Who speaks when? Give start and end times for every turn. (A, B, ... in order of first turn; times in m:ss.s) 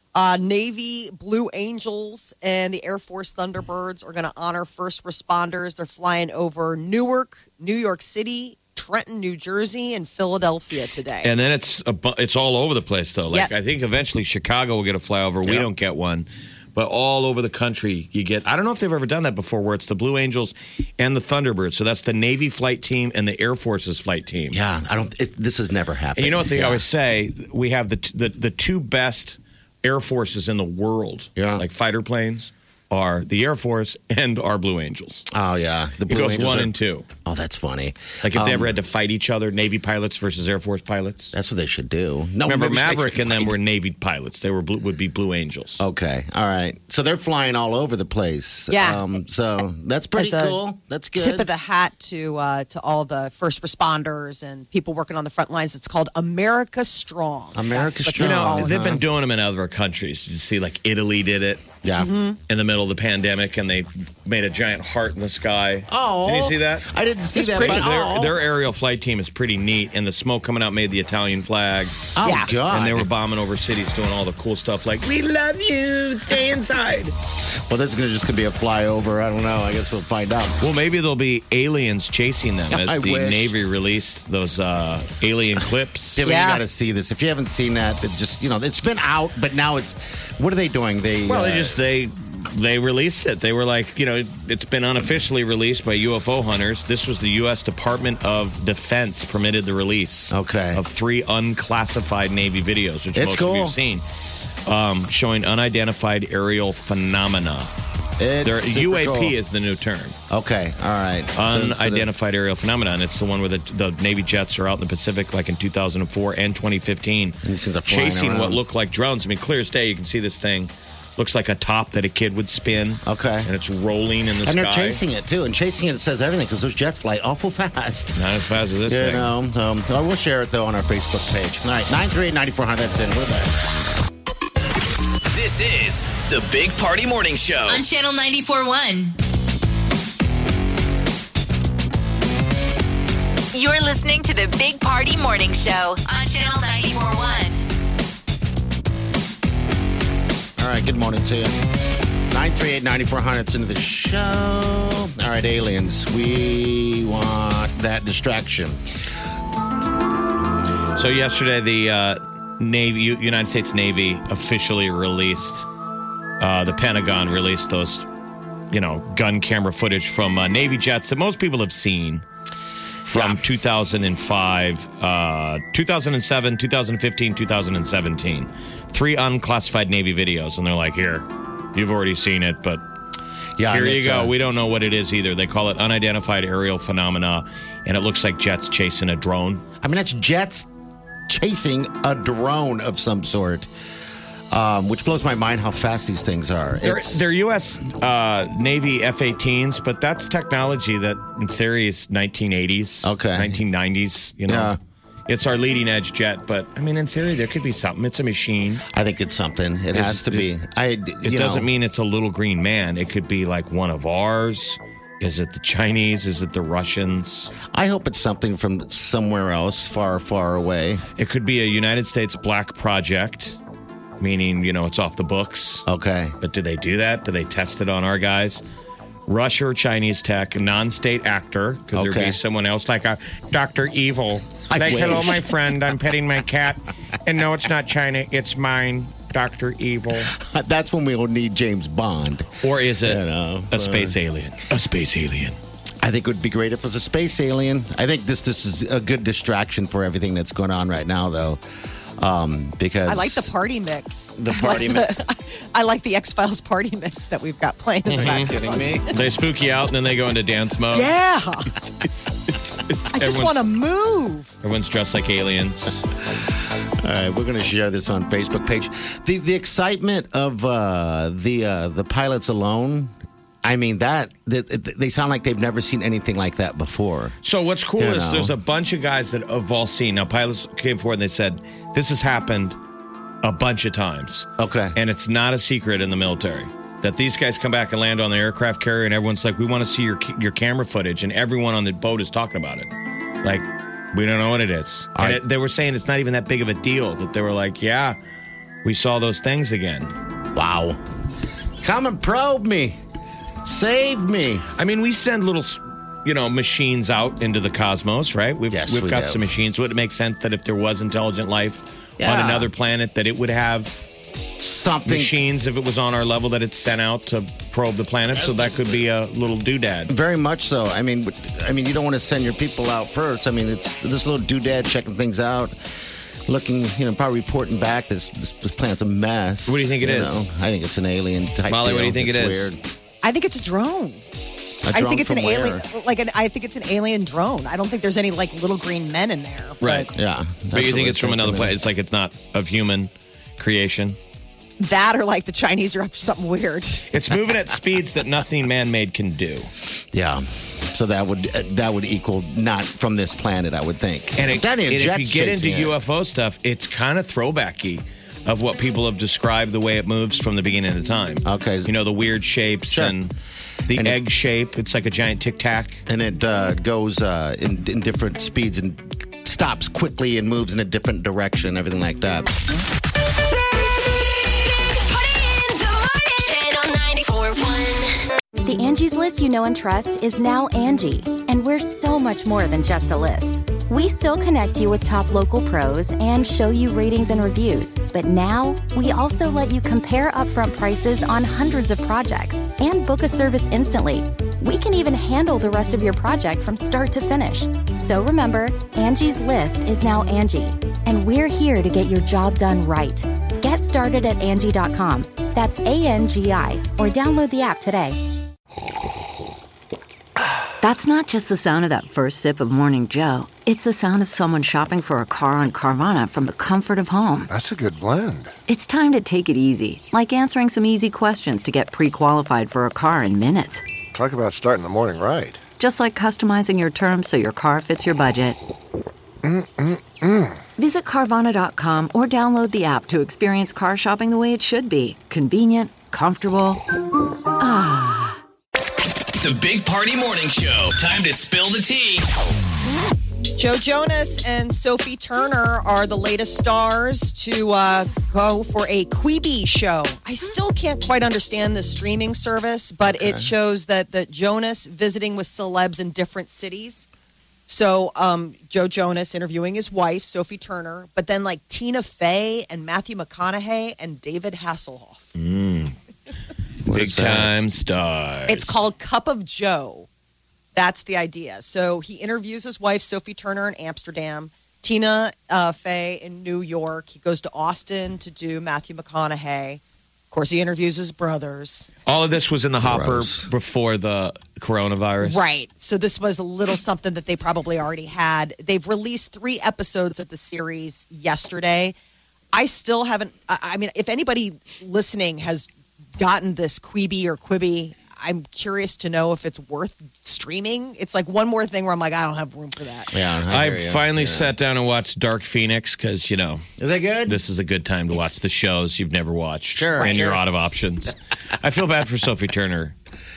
0:00.1-0:11.3 A
0:11.2-0:24.6 B
0:24.5-0:26.8 C
0:26.2-0:35.2 B
0:31.4-0:31.6 C
0:35.3-0:36.7 C
0:36.1-0:37.1 B
0:37.2-0:38.8 C
0:38.2-0:41.3 B
0:41.3-0:43.5 C
0:42.4-0:45.8 B
0:45.8-0:51.5 C
0:48.7-0:49.0 A
0:50.2-0:50.6 A
0:51.2-0:59.0 A
0:57.5-0:59.0 C
0:58.2-1:01.7 B
1:01.8-1:02.1 C
1:02.0-1:02.4 A
1:02.5-1:17.1 B
1:05.9-1:08.4 C
1:12.2-1:13.1 C
1:12.2-1:12.5 A
1:17.7-1:20.6 C
1:20.6-1:26.2 B
1:22.7-1:23.5 C
1:26.2-1:31.8 C
1:26.2-1:26.6 A
1:31.3-1:44.0 B
1:40.3-1:40.8 C
1:43.1-1:43.8 C
1:44.6-1:47.7 B
1:48.2-1:49.3 C
1:48.4-1:50.2 B
1:50.3-1:52.1 C
1:51.4-2:05.0 B
1:57.4-1:58.6 C
2:03.0-2:03.5 C
2:04.4-2:08.2 C
2:08.2-2:09.3 B
2:08.9-2:13.5 C
2:15.2-2:17.8 D
2:17.7-2:19.1 E
2:23.5-2:27.6 E
2:30.6-2:31.6 C
2:32.3-2:38.8 C
2:40.4-2:41.1 C
2:41.0-2:45.7 B
2:46.4-2:48.0 B
2:48.7-2:52.2 B
2:53.0-2:53.4 C
2:53.1-3:02.8 B
3:03.6-3:04.3 C
3:03.7-3:09.6 B
3:09.8-3:10.7 C
3:11.3-3:13.7 C
3:14.5-3:17.3 C
3:16.8-3:24.7 B
3:23.0-3:23.6 C
3:24.5-3:24.8 C
3:25.3-3:28.8 B
3:28.9-3:31.7 C
3:29.9-3:30.5 B
3:31.2-3:37.5 B
3:37.7-3:41.0 C
3:41.2-3:43.6 B
3:44.2-3:45.8 B
3:45.9-3:46.3 C
3:46.4-3:48.6 B
3:49.3-4:00.3 B
3:51.9-3:52.4 C
3:54.7-3:55.7 C
4:00.2-4:04.2 C
4:02.6-4:05.6 B
4:06.0-4:11.6 C
4:12.2-4:13.5 C
4:13.1-4:18.9 A
4:14.4-4:15.2 C
4:18.1-4:18.5 B
4:18.1-4:19.1 C
4:19.1-4:21.1 B
4:20.9-4:21.7 A
4:22.4-4:23.6 B
4:23.1-4:24.5 A
4:24.6-4:26.0 B
4:27.0-4:33.1 C
4:33.6-4:37.4 C
4:37.4-4:42.8 B
4:38.0-4:38.5 C
4:43.4-4:52.9 B
4:44.6-4:45.0 C
4:53.4-4:58.2 B
4:55.1-4:55.4 C
4:58.8-5:00.1 B
5:00.5-5:01.0 C
5:01.8-5:03.0 C
5:03.6-5:04.6 C
5:04.8-5:14.0 B
5:08.7-5:09.5 C
5:12.2-5:12.7 C
5:14.6-5:15.4 C
5:15.0-5:20.1 B
5:18.4-5:19.0 C
5:20.1-5:25.8 C
5:26.4-5:32.8 C
5:29.7-5:30.4 B
5:31.7-5:32.7 B
5:33.2-5:34.2 A
5:34.8-5:35.8 C
5:34.9-5:40.1 A
5:39.8-5:40.1 B
5:40.1-5:41.8 C
5:40.7-5:44.2 B
5:44.8-5:47.1 A
5:47.1-5:49.7 B
5:50.1-5:56.0 C
5:54.4-6:03.3 B
6:01.4-6:01.9 C
6:02.9-6:03.1 C
6:03.9-6:06.0 B
6:03.9-6:04.2 C
6:06.1-6:12.5 C
6:15.1-6:18.0 E
6:18.6-6:48.2 F
6:50.8-6:57.5 G
6:57.5-6:58.5 H
6:58.7-7:03.8 G
7:04.1-7:05.6 H
7:05.8-7:08.6 G
7:09.4-7:10.5 H
7:10.8-7:16.8 G
7:17.6-7:18.4 G
7:19.4-7:22.3 D
7:23.5-7:37.1 A
7:33.0-7:33.5 C
7:37.7-7:45.3 A
7:45.4-7:45.9 B
7:46.8-7:47.5 C
7:46.9-7:48.9 B
7:48.5-7:50.1 A
7:50.7-8:01.9 A
8:02.0-8:05.4 B
8:02.8-8:03.5 C
8:05.2-8:11.9 A
8:12.5-8:23.1 A
8:23.1-8:24.5 C
8:23.5-8:26.6 B
8:26.8-8:27.4 C
8:27.3-8:32.9 B
8:29.7-8:30.4 C